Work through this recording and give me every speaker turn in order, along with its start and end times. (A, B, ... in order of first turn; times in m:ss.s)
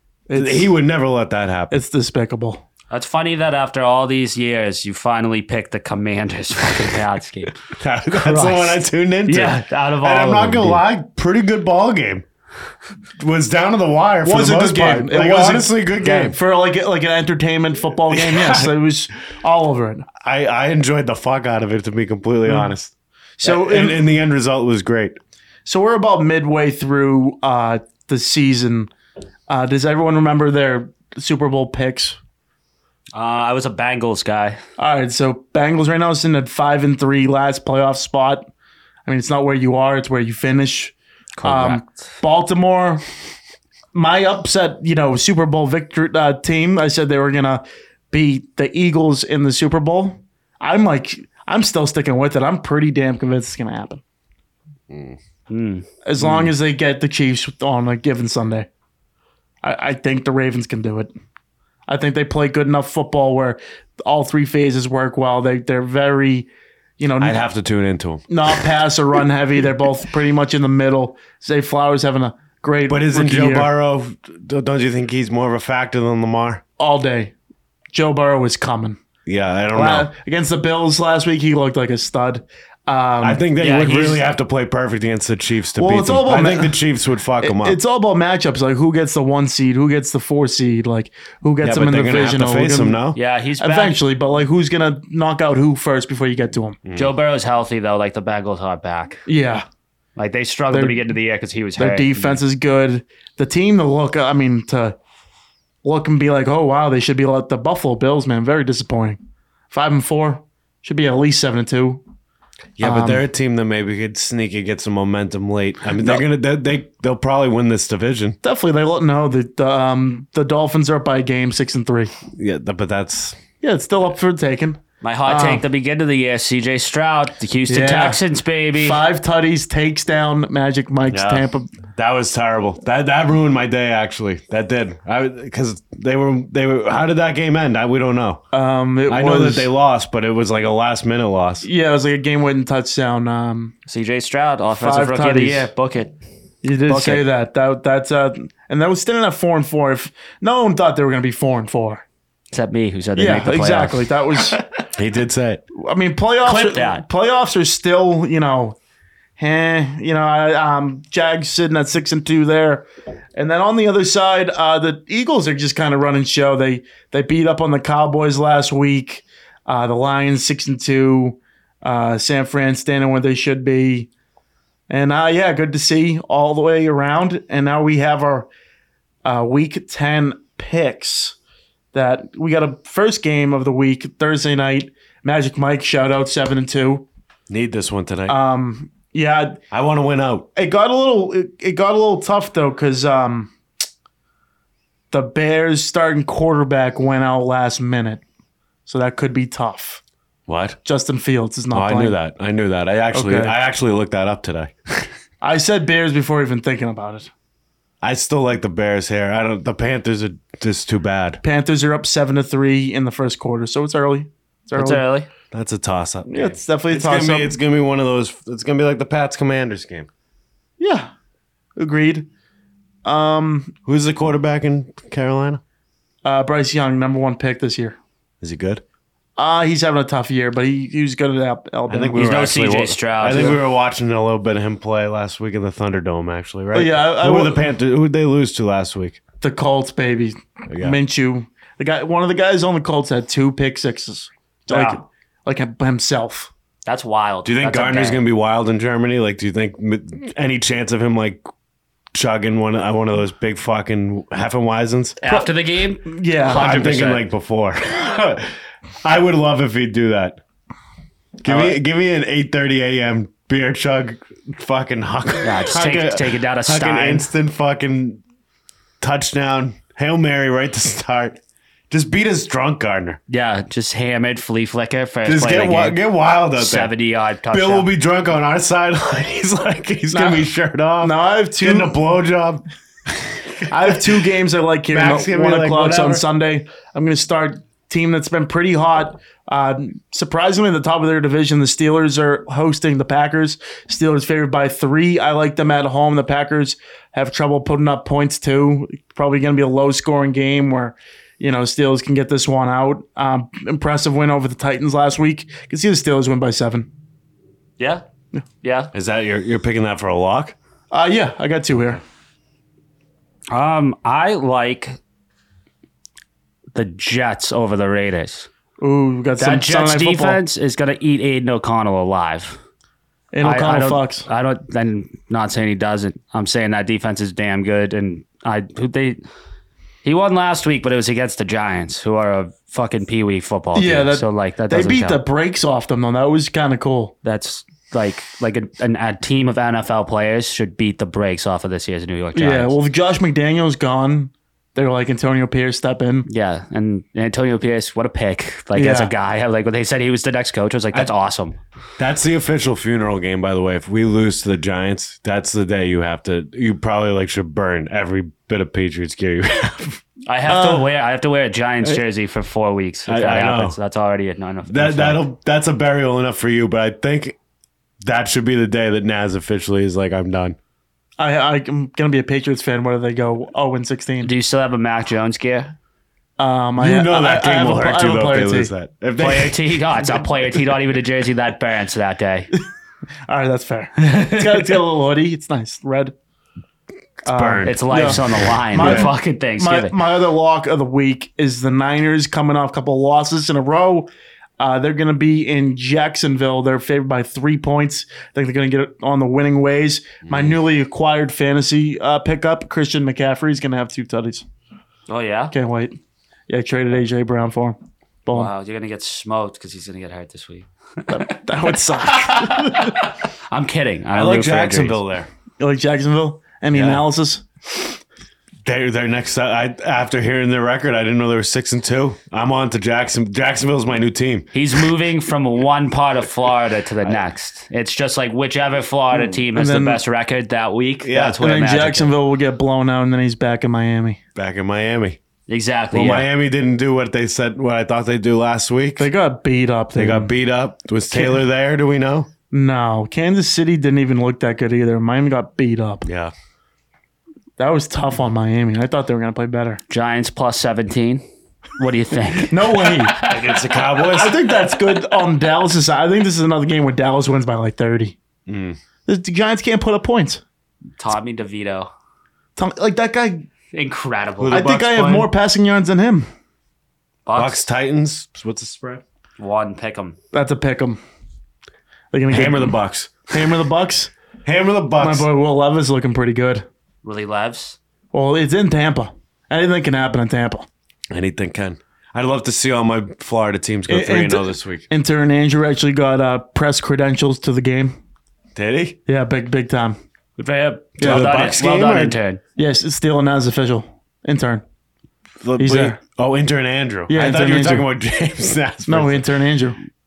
0:00.3-0:00.7 A
0:00.4-0:01.8 B
0:01.7-0:02.6 A
0:02.9-0:10.8 C
0:07.7-0:12.2 B
0:13.2-0:16.4 B
0:14.2-0:20.1 A
0:18.1-0:18.7 B
0:20.2-0:22.9 B
0:22.5-0:22.7 A
0:23.4-0:24.0 A
0:23.4-0:25.2 B
0:25.7-0:28.9 A
0:29.5-0:32.2 A
0:33.2-0:34.6 C
0:34.8-0:38.5 A
0:39.1-0:43.0 A
0:41.4-0:41.9 C
0:43.9-0:54.0 A
0:54.9-0:55.2 B
0:55.5-0:55.9 C
0:56.0-0:58.7 A
0:59.6-1:01.1 A
1:01.9-1:06.5 A
1:07.0-1:07.4 A
1:07.2-1:08.3 B
1:08.3-1:13.7 A
1:12.9-1:16.6 B
1:16.8-1:17.3 A
1:17.9-1:19.0 A
1:19.3-1:20.1 B
1:19.7-1:23.4 A
1:23.2-1:27.8 B
1:23.6-1:24.2 C
1:25.8-1:26.8 A
1:27.4-1:33.0 A
1:31.6-1:33.2 B
1:33.2-1:34.0 C
1:33.6-1:36.8 A
1:36.8-1:37.1 B
1:37.0-1:39.2 C
1:39.3-1:39.6 A
1:40.2-1:42.4 C
1:40.7-1:41.0 A
1:41.8-1:45.0 A
1:45.8-1:49.2 A
1:49.7-1:52.0 A
1:52.8-1:58.4 B
1:52.8-1:53.2 A
1:56.0-1:56.2 A
1:58.4-2:02.1 A
2:02.4-2:03.4 B
2:03.6-2:05.6 A
2:05.0-2:09.0 C
2:07.7-2:08.2 A
2:08.8-2:11.7 A
2:11.1-2:18.4 B
2:18.5-2:19.7 A
2:19.1-2:21.7 B
2:21.6-2:23.7 A
2:23.9-2:26.2 C
2:24.7-2:25.7 A
2:26.6-2:32.0 A
2:26.9-2:27.2 C
2:32.5-2:34.6 C
2:33.2-2:34.6 A
2:34.9-2:35.6 B
2:35.8-2:38.8 A
2:36.4-2:37.0 C
2:39.4-2:54.1 A
2:54.9-2:58.5 A
2:59.2-3:01.4 A
3:01.9-3:07.1 A
3:07.5-3:08.4 B
3:08.3-3:09.6 A
3:09.7-3:10.5 B
3:10.6-3:13.5 A
3:15.1-3:18.2 A
3:18.9-3:20.0 A
3:20.5-3:20.8 B
3:20.8-3:22.2 A
3:21.7-3:24.8 B
3:23.1-3:23.6 A
3:25.4-3:27.3 A
3:28.0-3:31.4 B
3:31.4-3:35.0 A
3:34.8-3:35.3 C
3:35.5-3:40.1 B
3:36.3-3:37.6 A
3:40.8-3:41.1 A
3:41.8-3:42.3 A
3:43.0-3:43.7 A
3:43.9-3:45.6 B
3:46.2-3:48.0 A
3:48.4-3:48.8 B
3:49.4-3:52.2 A
3:51.9-3:59.2 B
3:52.2-3:53.6 C
3:56.7-3:57.7 A
3:59.4-4:06.5 A
4:00.7-4:01.0 B
4:04.7-4:05.0 C
4:06.8-4:08.2 C
4:07.4-4:11.4 B
4:12.1-4:15.2 B
4:15.2-4:17.2 C
4:16.0-4:16.7 A
4:16.5-4:18.5 B
4:19.0-4:20.4 B
4:21.4-4:28.2 B
4:21.5-4:21.8 C
4:25.4-4:27.3 C
4:29.0-4:33.2 B
4:33.3-4:36.0 C
4:35.2-4:36.9 B
4:36.6-4:37.9 C
4:37.5-4:43.3 B
4:40.1-4:40.5 A
4:41.0-4:42.0 A
4:43.7-5:06.9 A
4:44.9-4:46.2 B
5:08.6-5:08.9 C
5:08.9-5:10.6 B
5:10.9-5:12.0 A
5:13.5-5:15.0 C
5:16.7-5:18.5 C
5:18.8-5:20.4 A
5:19.4-5:22.6 C
5:23.3-5:24.3 A
5:23.4-5:29.2 C
5:30.0-5:35.2 C
5:33.8-5:37.1 A
5:37.2-5:42.8 C
5:42.4-5:46.3 A
5:46.3-5:51.6 C
5:48.8-5:49.1 A
5:52.0-6:00.0 B
6:00.3-6:05.2 C
6:00.5-6:00.8 A
6:03.1-6:03.8 B
6:04.7-6:07.4 B
6:08.0-6:10.6 B
6:11.2-6:14.3 A
6:14.2-6:15.8 C
6:16.4-6:18.7 A
6:16.8-6:19.6 B
6:19.2-6:22.5 C
6:23.3-6:26.1 A
6:27.2-6:29.1 B
6:27.3-6:44.4 A
6:27.6-6:30.0 C
6:40.3-6:40.6 B
6:45.1-6:45.5 C
6:45.5-6:46.0 A
6:46.5-6:48.5 A
6:48.3-6:51.2 C
6:51.1-6:53.0 A
6:52.3-6:55.0 C
6:54.1-6:55.3 B
6:55.6-6:57.4 A
6:56.7-6:57.0 B
6:58.6-7:04.5 B
7:04.5-7:12.1 C
7:09.5-7:10.0 A
7:11.0-7:11.4 B
7:11.4-7:14.2 A
7:14.4-7:15.2 B
7:15.5-7:16.3 C
7:15.9-7:19.1 B
7:19.0-7:20.3 A
7:20.0-7:22.3 B
7:21.1-7:21.4 A
7:22.5-7:26.1 A
7:26.0-7:26.3 B
7:27.6-7:29.8 A
7:29.9-7:31.2 C
7:31.8-7:33.6 C
7:32.5-7:33.2 A
7:33.2-7:34.4 B
7:34.1-7:38.2 A
7:38.5-7:38.8 B
7:39.1-7:40.4 A
7:41.0-7:41.9 C
7:42.6-7:43.5 A
7:43.7-7:45.2 C
7:44.4-7:45.2 B
7:44.5-7:46.3 A
7:47.3-7:47.6 C
7:47.4-7:49.0 B
7:49.4-7:50.2 C
7:50.3-7:51.0 A
7:52.1-7:52.8 A
7:52.3-7:53.3 B
7:53.3-7:54.1 A
7:54.4-7:55.3 B
7:55.0-7:56.7 A
7:57.0-7:57.8 C
7:58.1-8:00.7 A
8:01.1-8:04.8 B
8:03.9-8:08.0 A
8:08.6-8:09.0 B
8:09.1-8:10.0 A
8:10.4-8:12.4 C
8:11.0-8:11.3 A
8:11.0-8:12.2 B
8:12.6-8:14.6 A
8:15.4-8:19.2 B
8:15.6-8:16.0 A
8:17.1-8:17.9 A
8:18.9-8:19.8 A